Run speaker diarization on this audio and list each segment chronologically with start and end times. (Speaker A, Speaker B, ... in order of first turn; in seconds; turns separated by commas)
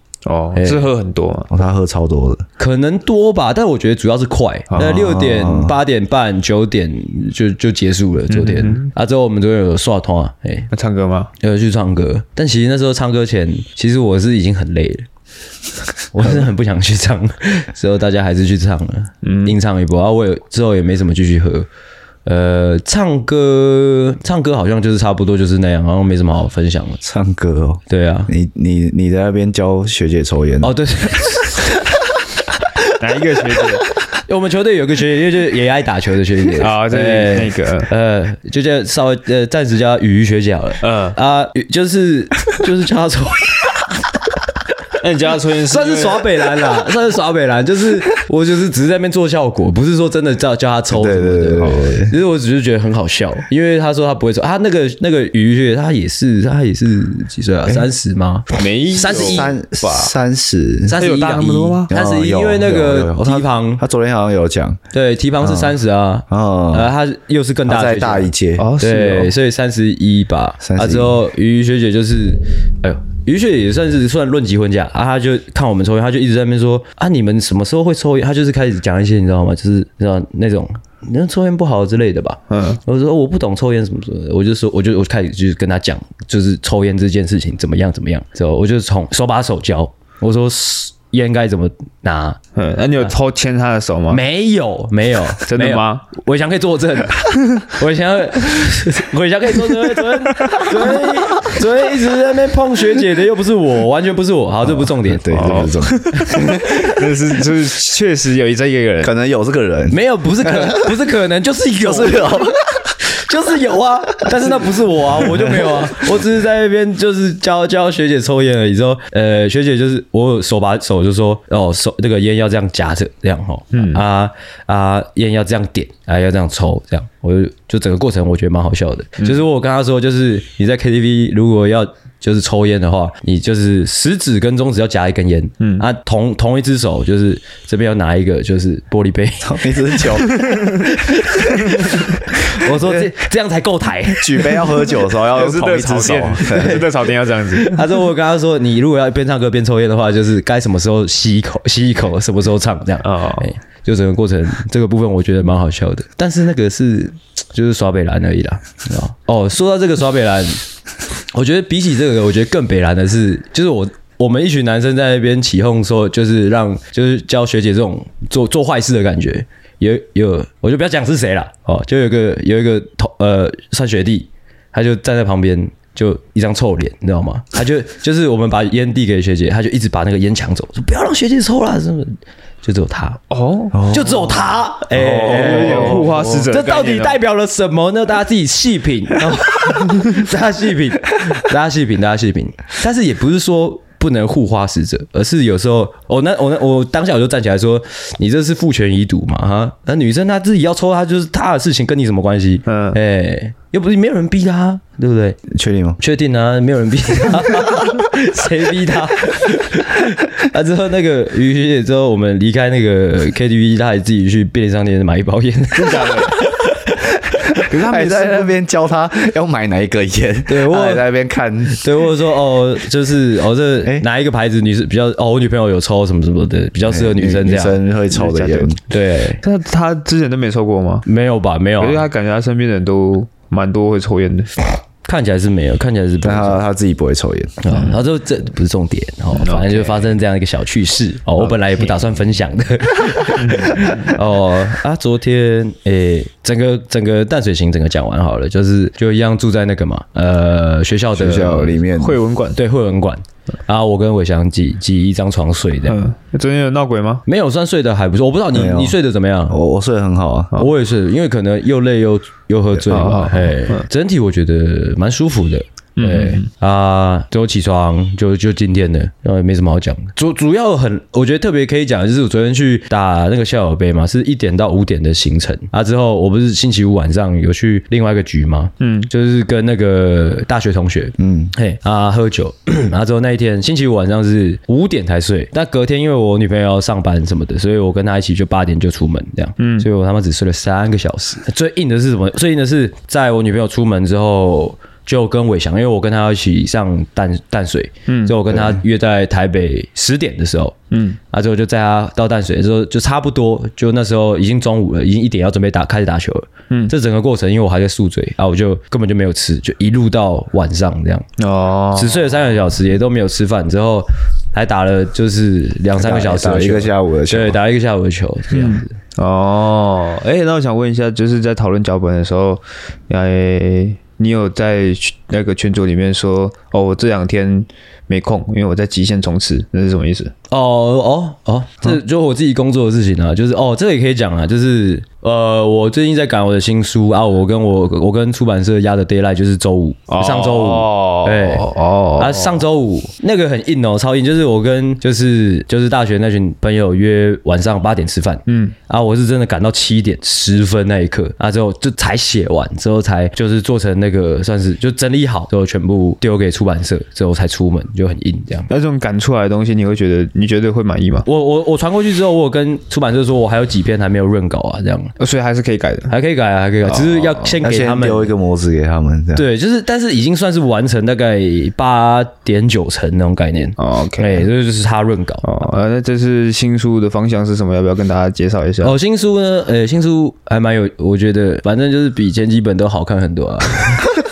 Speaker A: 0.3-1.5, Speaker B: 0.6-0.9, Speaker C: 1.5-2.5, Speaker B: 2.6-10.7, Speaker A: 4.7-5.0, Speaker C: 4.8-5.8, Speaker A: 8.3-8.9, Speaker A: 10.7-11.3, Speaker B: 11.4-15.1, Speaker B: 16.1-21.7, Speaker A: 19.2-19.6, Speaker B: 22.2-27.0, Speaker C: 27.0-30.8, Speaker B: 27.9-28.3, Speaker B: 30.6-31.8, Speaker A: 33.0-33.8, Speaker B: 34.3-43.9, Speaker A: 36.6-37.9, Speaker A: 40.8-41.2, Speaker A: 45.0-46.3, Speaker B: 45.7-59.5, Speaker C: 50.9-52.1, Speaker A: 58.6-60.1, Speaker C: 59.1-61.0, Speaker B: 60.9-63.8, Speaker A: 60.9-61.9, Speaker C: 61.9-64.8, Speaker B: 64.9-92.4, Speaker C: 65.4-65.8, Speaker C: 66.3-66.9, Speaker C: 67.7-68.7, Speaker A: 68.6-69.3, Speaker C: 70.6-71.2, Speaker A: 82.5-82.8, Speaker A: 92.5-94.2, Speaker B: 94.1-105.6, Speaker A: 95.5-96.1, Speaker C: 104.7-106.7, Speaker A: 105.3-109.1, Speaker B: 106.5-106.8, Speaker C: 109.0-111.0, Speaker B: 109.9-144.7, Speaker C: 111.8-112.9, Speaker A: 123.7-124.0, Speaker A: 135.6-135.8, Speaker C: 139.4-140.6, Speaker A: 140.4-140.8, Speaker A: 141.6-142.1, Speaker C: 144.2-146.8, Speaker A: 145.3-147.8, Speaker B: 146.5-146.9, Speaker B: 147.5-160.6, Speaker A: 153.0-153.5, Speaker B: 161.3-183.2, Speaker A: 183.3-183.8, Speaker C: 183.7-186.3, Speaker B: 183.9-205.4, Speaker A: 185.0-187.2, Speaker A: 202.7-203.0, Speaker C: 205.5-206.0, Speaker B: 206.0-217.2, Speaker A: 215.7-216.4, Speaker A: 217.7-218.5, Speaker C: 217.8-221.9, Speaker B: 220.5-221.1, Speaker B: 221.7-227.8, Speaker C: 226.8-228.8, Speaker A: 228.1-228.8, Speaker B: 228.9-229.4, Speaker A: 229.4-231.1, Speaker B: 231.1-232.1, Speaker A: 231.8-234.5, Speaker B: 235.1-236.6, Speaker C: 236.2-237.6, Speaker B: 237.6-251.8, Speaker A: 239.3-240.1, Speaker A: 241.4-241.8, Speaker A: 243.4-244.1, Speaker C: 251.1-252.2, Speaker A: 252.0-252.6, Speaker B: 252.6-256.0, Speaker A: 255.8-257.2, Speaker B: 257.3-259.6, Speaker C: 258.5-259.0, Speaker C: 259.5-260.5, Speaker B: 260.6-300.8, Speaker A: 262.9-263.9, Speaker A: 266.0-266.5, Speaker A: 278.8-279.1, Speaker C: 281.2-281.5, Speaker A: 289.6-289.9, Speaker A: 298.1-298.7, Speaker A: 300.9-301.2, Speaker B: 301.3-311.3, Speaker A: 311.4-312.2, Speaker B: 311.9-318.9, Speaker C: 316.0-317.6, Speaker A: 318.5-330.3, Speaker B: 330.5-358.7, Speaker A: 340.1-342.6, Speaker A: 348.5-348.7, Speaker A: 358.7-361.3, Speaker B: 361.3-365.1, Speaker A: 365.2-366.1, Speaker B: 366.1-368.3, Speaker C: 366.9-369.4, Speaker B: 369.4-375.4, Speaker A: 373.8-374.5, Speaker A: 375.4-378.9, Speaker B: 378.8-384.1